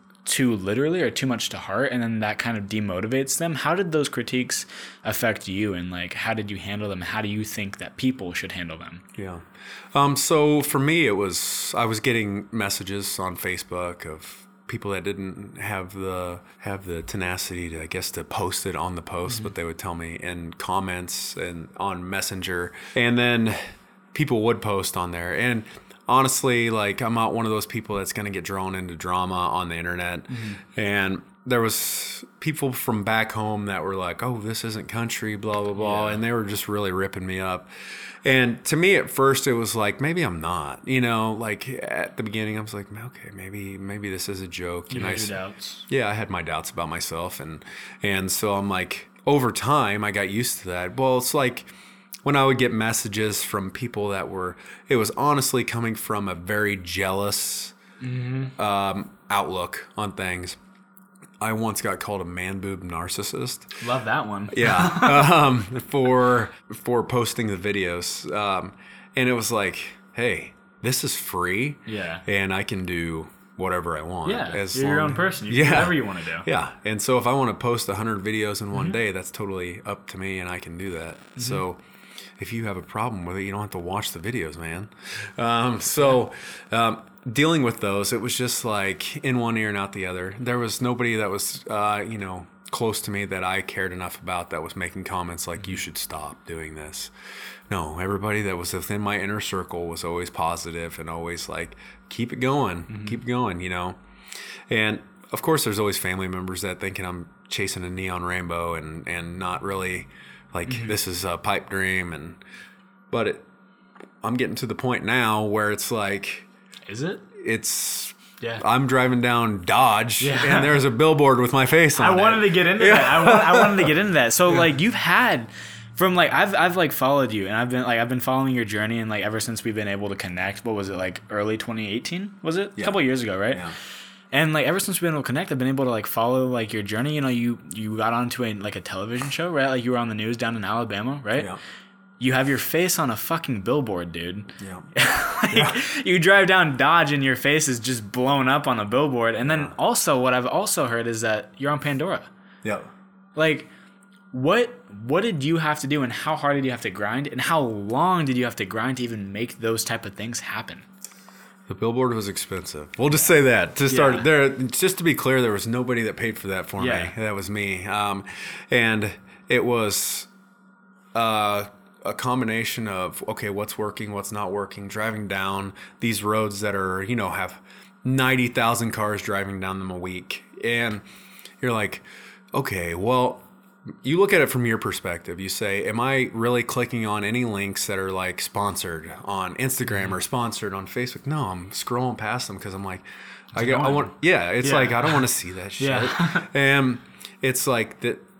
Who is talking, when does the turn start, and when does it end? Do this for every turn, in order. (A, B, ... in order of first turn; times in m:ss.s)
0:00.2-0:09.0 A
0:09.2-0:37.7 B
0:30.3-0:30.6 A
0:35.8-0:36.2 A
0:38.2-0:45.3 B
0:44.9-0:45.8 A
0:45.9-0:51.7 B
0:52.2-0:57.8 B
0:58.0-0:58.5 A
0:58.6-1:00.6 B
1:01.4-1:03.8 B
1:03.8-1:05.4 A
1:04.5-1:21.8 B
1:11.8-1:12.2 A
1:14.2-1:16.5 A
1:22.4-1:37.1 B
1:37.7-1:44.0 B
1:42.9-1:43.2 A
1:44.7-1:52.4 B
1:50.7-1:50.9 A
1:53.1-1:53.4 B
1:54.2-1:56.5 B
1:56.8-1:57.2 A
1:57.3-2:03.9 B
2:00.2-2:00.8 A
2:02.0-2:13.6 A
2:13.5-2:13.8 B
2:14.3-2:21.5 A
2:21.3-2:21.6 B
2:22.2-2:32.3 A
2:24.6-2:24.9 B
2:25.5-2:25.8 B
2:29.5-2:29.7 B
2:32.6-2:32.9 B
2:33.4-2:33.7 A
2:34.3-2:40.8 A
2:41.7-2:50.3 B
2:43.9-2:44.3 A
2:46.8-2:47.1 A
2:51.1-3:01.0 B
3:01.6-3:03.5 B
3:04.0-3:18.2 B
3:09.9-3:10.2 A
3:13.5-3:15.2 A
3:15.8-3:16.5 A